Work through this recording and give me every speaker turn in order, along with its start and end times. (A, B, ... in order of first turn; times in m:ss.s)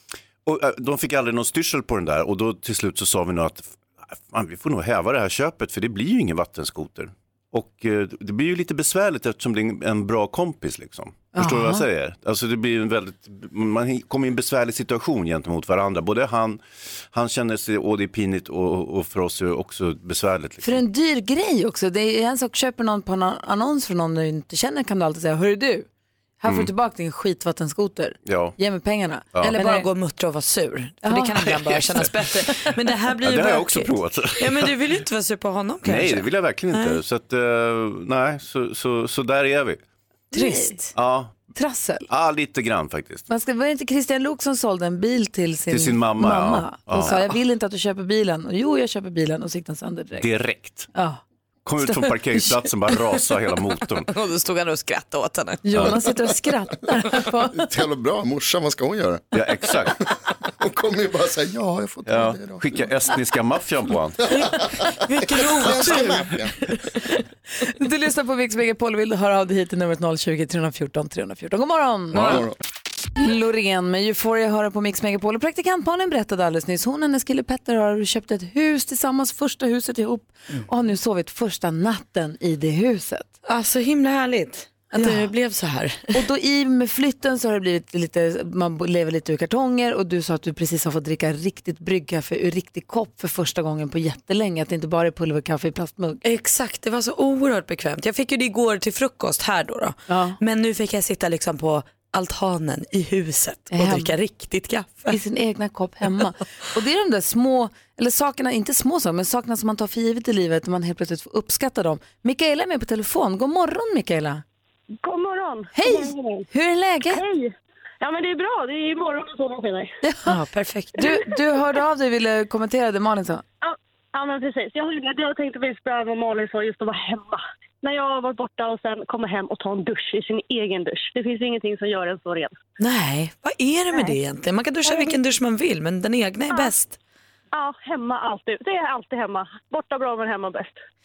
0:00.4-0:20.8 A
0:11.3-0:11.8 B
0:20.6-0:25.9 B
0:26.4-0:29.9 B
0:26.4-0:26.7 A
0:28.2-0:28.6 A
0:29.4-0:37.0 C
0:31.0-0:31.8 B
0:33.2-0:34.8 A
0:35.8-0:39.8 A
0:40.3-0:40.8 B
0:40.3-0:40.9 C
0:40.9-0:41.3 A
0:41.5-0:42.1 B
0:42.1-0:43.3 A
0:43.3-0:50.3 B
0:45.7-0:47.2 A
0:50.2-0:50.9 A
0:50.9-0:51.2 B
0:51.6-0:54.1 A
0:51.8-0:52.6 B
0:54.0-0:56.0 C
0:55.6-0:57.6 B
0:57.6-0:59.2 D
0:59.3-1:00.0 A
1:00.6-1:02.7 D
1:02.0-1:04.3 A
1:04.3-1:06.4 C
1:05.5-1:06.5 D
1:07.7-1:12.4 B
1:12.2-1:12.5 D
1:13.2-1:23.3 B
1:23.4-1:26.2 C
1:24.9-1:25.3 B
1:26.1-1:36.2 B
1:36.2-1:45.2 C
1:40.1-1:40.4 B
1:43.7-1:44.1 B
1:45.1-1:54.4 B
1:55.0-1:56.5 E
1:55.7-1:57.2 B
1:57.1-1:59.9 E
2:00.0-2:00.4 B
2:00.2-2:00.9 C
2:00.9-2:03.4 B
2:03.6-2:12.6 E
2:12.8-2:17.0 C
2:14.8-2:15.2 E
2:17.5-2:20.8 E